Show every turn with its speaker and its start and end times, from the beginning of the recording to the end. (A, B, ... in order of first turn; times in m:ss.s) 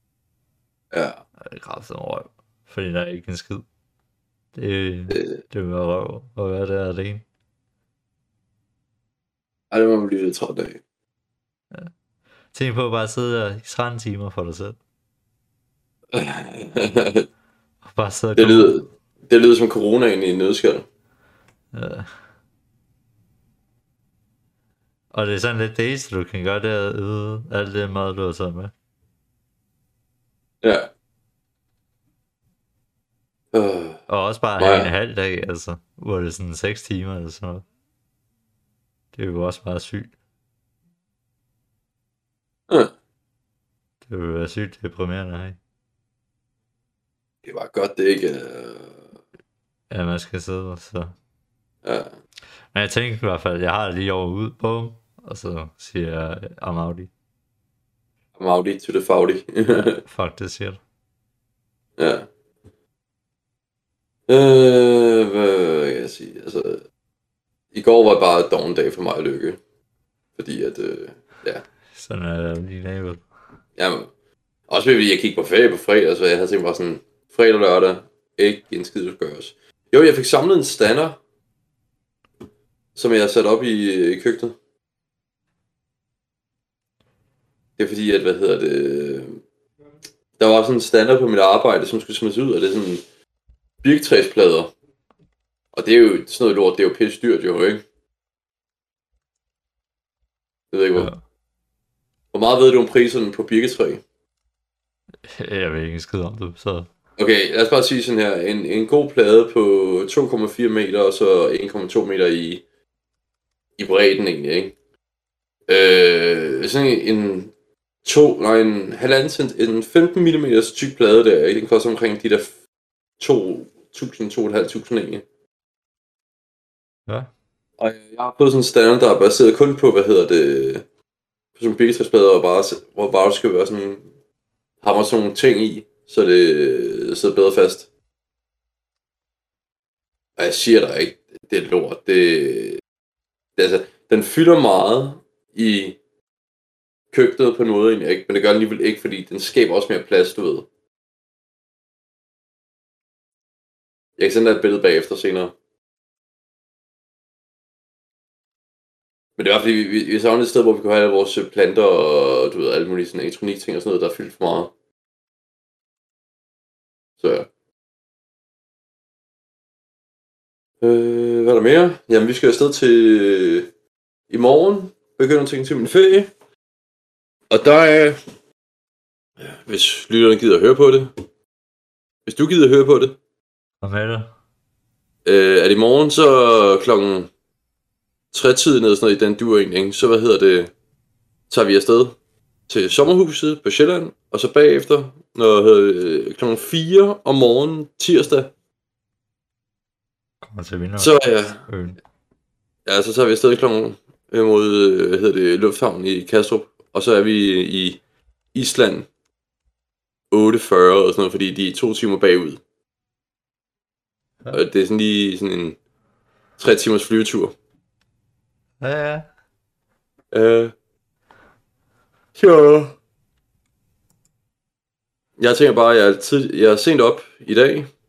0:00.9-0:01.2 A
0:01.4-0:03.6 B
0:04.6-0:07.2 B
0:09.7-0:10.8 A
0:12.5-0:14.8 B
0:16.1-0:17.3 A
0:17.8-0:18.8 B
0:18.4-0:20.9 A
0:21.7-0:22.1 B
0:25.1-0:28.7 B
0:30.6-0:30.9 A
0:33.5-0:34.0 A
0:34.1-0:37.6 B
0:34.6-0:34.9 A
0:39.1-0:40.1 B
0:44.1-0:45.6 B
0:47.4-0:49.0 A
0:49.9-0:51.2 B
0:51.8-0:52.1 A
0:52.7-0:57.1 B
0:58.4-1:00.0 A
0:59.8-1:00.8 B
1:02.0-1:02.3 A
1:04.3-1:06.8 A
1:07.7-1:09.6 A
1:10.4-1:11.6 A
1:11.9-1:13.2 B
1:13.8-1:14.1 A
1:14.7-1:21.2 A
1:23.0-1:24.6 A
1:27.8-1:29.4 A
1:30.4-1:33.0 A
1:33.8-1:34.7 A
1:35.7-1:37.8 A
1:40.7-1:41.1 A
1:42.3-1:44.0 A
1:45.3-1:46.9 B
1:47.2-1:52.6 A
1:53.8-1:54.7 A
1:55.7-1:57.5 A
1:58.0-2:02.5 A
2:03.2-2:05.2 A
2:07.8-2:10.8 A
2:11.6-2:14.1 A
2:14.8-2:17.9 A
2:20.4-2:22.8 A
2:23.6-2:26.0 A
2:27.1-2:30.7 A
2:34.2-2:35.5 A
2:39.4-2:44.7 A
2:47.2-2:47.5 A
2:50.8-2:53.7 A
2:54.3-2:56.3 A
2:57.5-2:58.2 A
2:59.4-3:01.1 A
3:02.3-3:03.2 A
3:03.8-3:04.3 B
3:05.2-3:07.3 A
3:08.3-3:10.7 A
3:11.5-3:12.2 A
3:12.7-3:18.5 A
3:20.4-3:22.0 B
3:21.0-3:21.6 A
3:22.9-3:28.0 A
3:28.5-3:29.1 A
3:30.3-3:32.6 A
3:34.5-3:35.8 A
3:36.6-3:37.5 A
3:38.8-3:39.3 B
3:40.3-3:40.7 A
3:42.4-3:43.0 A
3:45.4-3:47.9 A